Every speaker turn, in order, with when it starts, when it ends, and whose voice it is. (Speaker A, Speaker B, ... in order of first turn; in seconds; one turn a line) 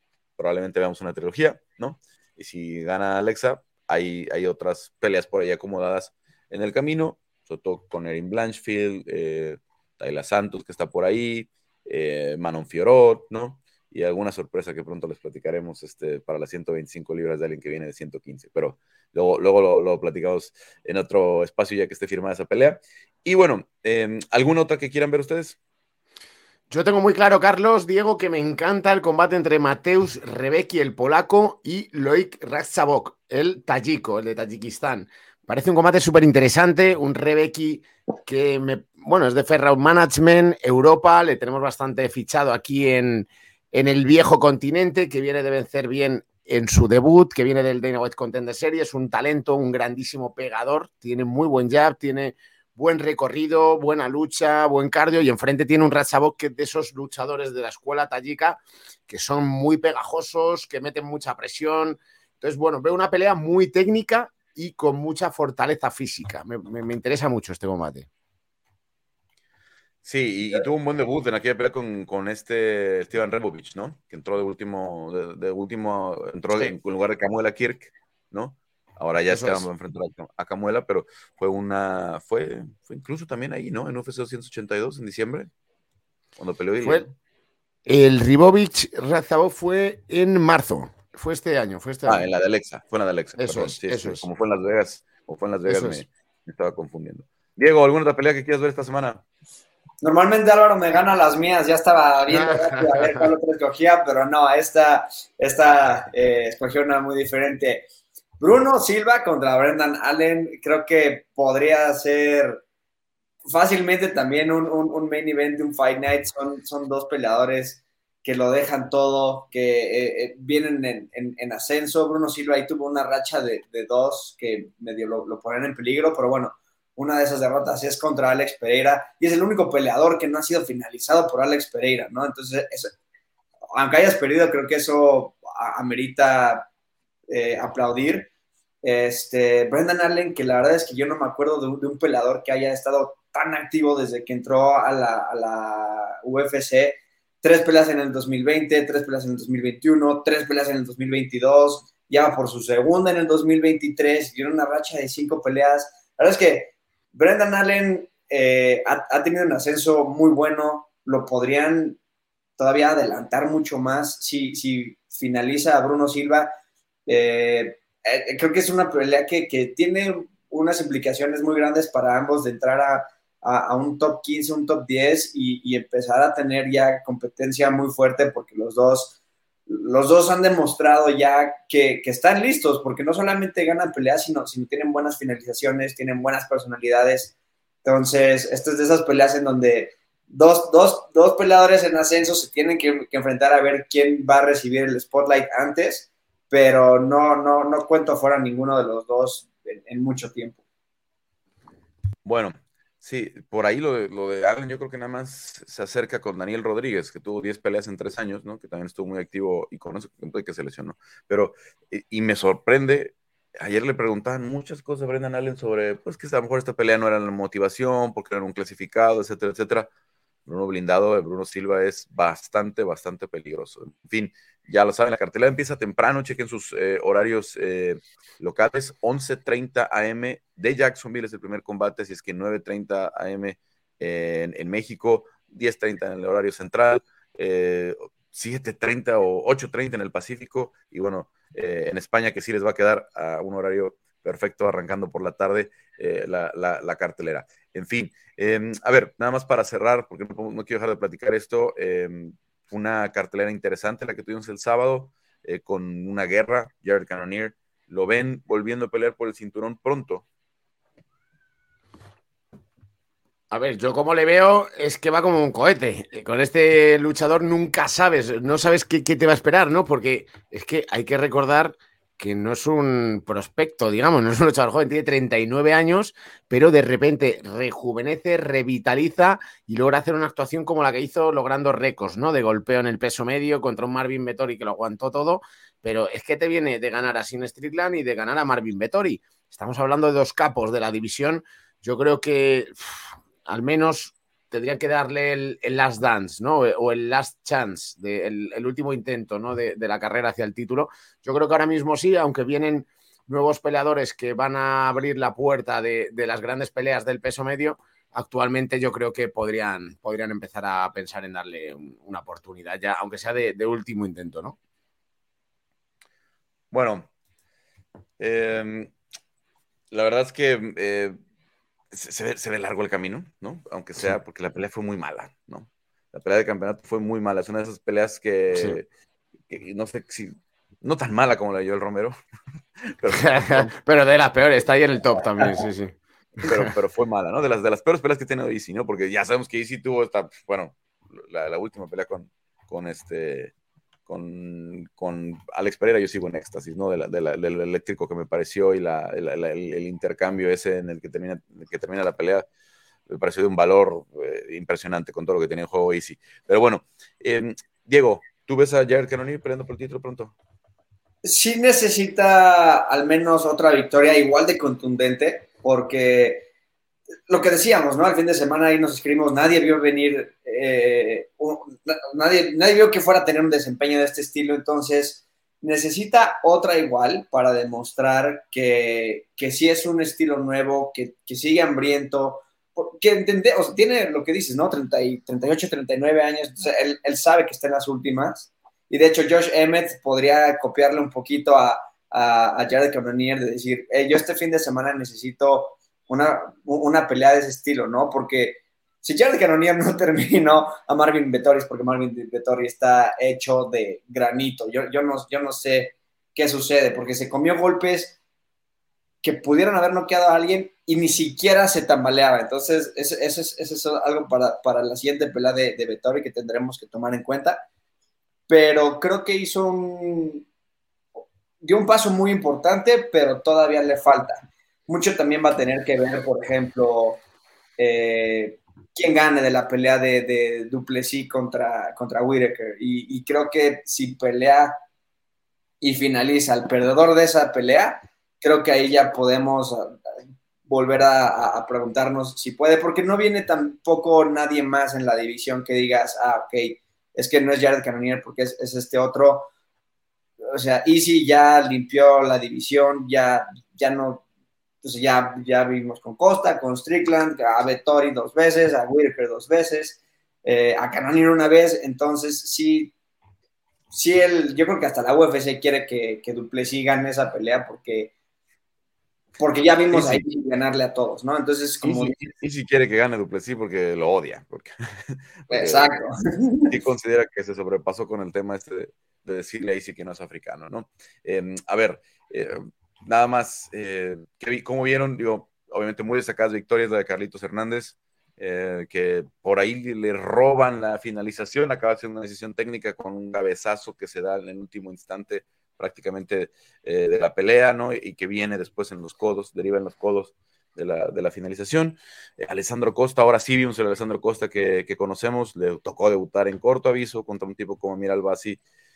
Speaker A: 0.4-25.6
Speaker B: 26.7-68.1
Speaker A: 70.0-85.5
Speaker B: 79.3-79.7
Speaker A: 86.4-87.2
Speaker B: 87.9-92.3
Speaker A: 92.1-99.2
Speaker B: 93.4-94.2
Speaker B: 95.7-96.0
Speaker C: 100.0-107.9
Speaker B: 102.3-103.3
Speaker C: 108.4-112.6
Speaker C: 113.5-132.9
Speaker C: 133.8-136.7
Speaker C: 137.3-138.3
Speaker C: 138.8-162.0
Speaker C: 162.6-166.5
Speaker C: 167.1-179.2
Speaker C: 179.7-200.6
Speaker A: 202.2-219.9
Speaker A: 220.5-260.2
Speaker B: 263.5-314.6
Speaker A: 316.7-317.1
Speaker A: 318.2-318.9
Speaker A: 319.9-321.2
Speaker A: 321.9-328.9
Speaker A: 329.5-332.2
Speaker A: 332.9-333.7
Speaker B: 333.1-335.9
Speaker A: 336.4-343.5
Speaker B: 336.4-336.7
Speaker A: 344.1-352.5
Speaker A: 353.1-360.3
Speaker C: 361.2-366.5
Speaker C: 367.3-408.2
Speaker C: 409.2-417.6
Speaker C: 418.5-420.4
Speaker C: 421.6-427.2
Speaker C: 427.8-434.8
Speaker C: 435.8-440.0
Speaker C: 440.7-449.5
Speaker C: 450.5-454.2
Speaker C: 454.8-462.9
Speaker C: 463.9-468.1
Speaker C: 469.4-472.1
Speaker A: 469.9-470.2
Speaker A: 471.8-475.9
Speaker C: 475.5-476.8
Speaker A: 476.7-508.6